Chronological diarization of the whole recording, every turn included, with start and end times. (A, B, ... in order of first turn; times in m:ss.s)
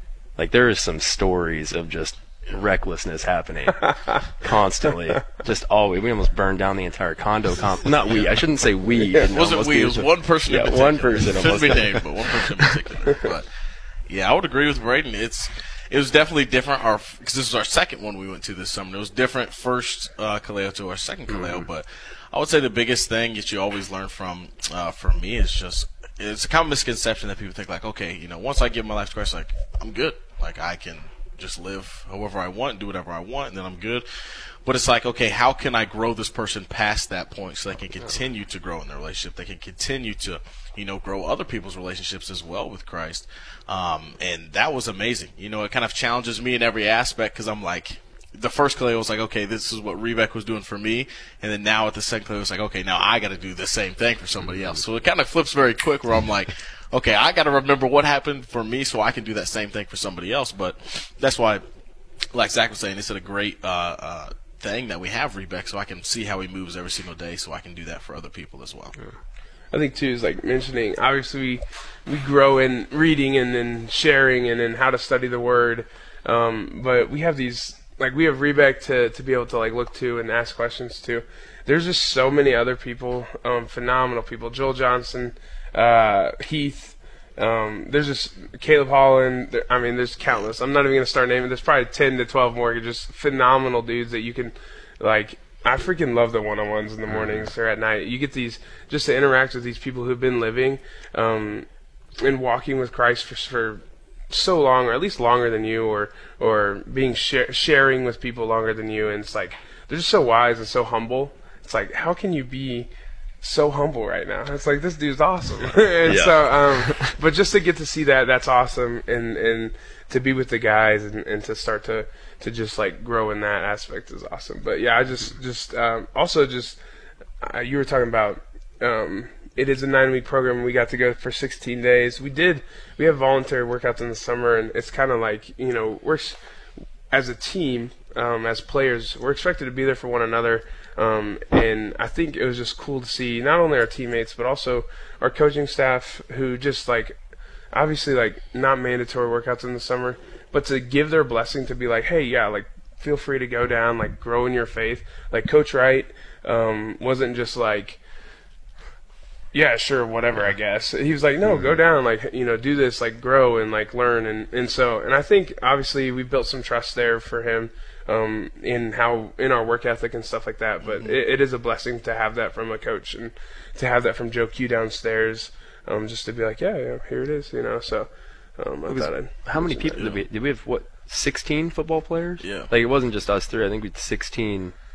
0:00.4-0:12.7 A
0:09.3-0:13.5 B
0:14.1-1:01.6 B
0:21.3-0:21.6 A
1:02.3-1:09.0 B
1:09.7-1:41.7 C
1:42.2-1:52.9 C
1:53.4-2:06.8 C
1:56.1-1:57.2 A
2:07.4-2:16.4 C
2:17.1-2:27.2 C
2:27.7-2:38.0 C
2:39.5-3:00.0 C
2:41.4-2:41.8 A
2:50.8-2:51.2 B
2:58.9-3:04.7 A
3:00.0-3:00.2 B
3:02.4-3:02.7 B